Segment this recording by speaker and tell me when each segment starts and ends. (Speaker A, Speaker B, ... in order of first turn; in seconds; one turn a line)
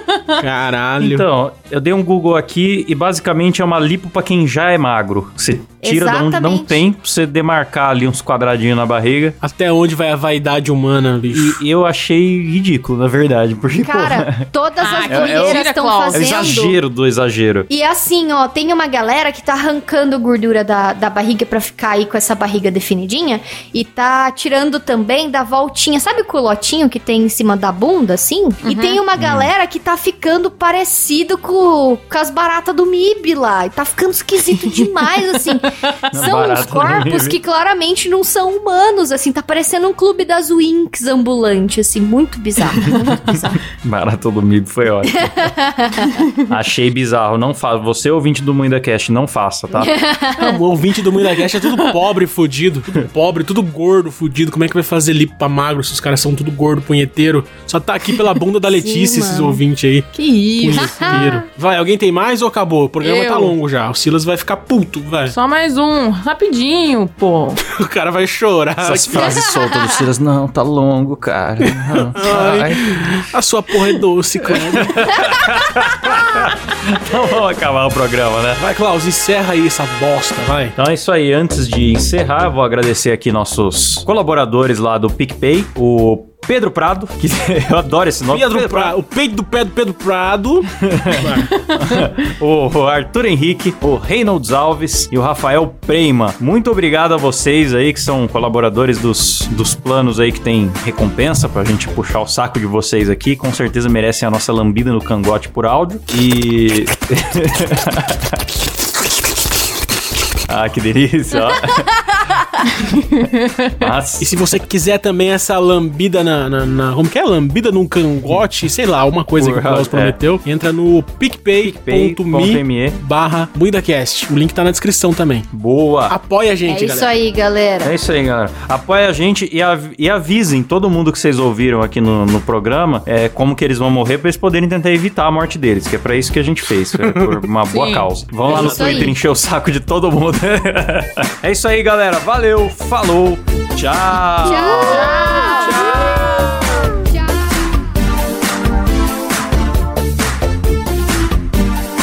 Speaker A: 0.4-1.3
Speaker B: 1.0-9.4
Speaker C: 5.8-6.8
Speaker A: 9.4-11.6
Speaker B: 11.3-14.5
Speaker C: 13.8-16.8
Speaker D: 14.8-16.2
Speaker B: 15.1-17.7
Speaker C: 17.7-43.6
Speaker D: 28.6-29.0
Speaker B: 29.2-29.5
Speaker B: 36.1-37.4
Speaker B: 42.9-45.5
Speaker C: 45.1-46.2
Speaker B: 46.4-49.9
Speaker C: 49.8-50.6
Speaker A: 50.4-65.3
Speaker C: 58.7-59.6
Speaker D: 60.1-61.4
Speaker C: 60.7-61.4
Speaker D: 63.0-63.6
Speaker D: 65.3-67.6
Speaker A: 67.7-69.4
Speaker B: 68.8-73.2
Speaker C: 69.1-69.9
Speaker A: 72.1-75.1
Speaker B: 74.5-78.6
Speaker A: 78.6-80.8
Speaker B: 80.8-89.0
Speaker A: 88.3-91.5
Speaker B: 90.8-108.4
Speaker D: 91.6-92.1
Speaker B: 110.5-111.9
Speaker D: 112.7-113.7
Speaker B: 113.8-114.3
Speaker A: 114.2-125.5
Speaker B: 119.4-120.2
Speaker B: 121.6-123.0
Speaker B: 125.5-126.2
Speaker A: 126.1-127.1
Speaker C: 126.7-127.9
Speaker B: 127.8-145.3
Speaker A: 137.0-137.3
Speaker D: 137.7-138.1
Speaker C: 138.5-139.2
Speaker A: 138.6-139.0
Speaker C: 144.4-147.6
Speaker D: 144.4-146.9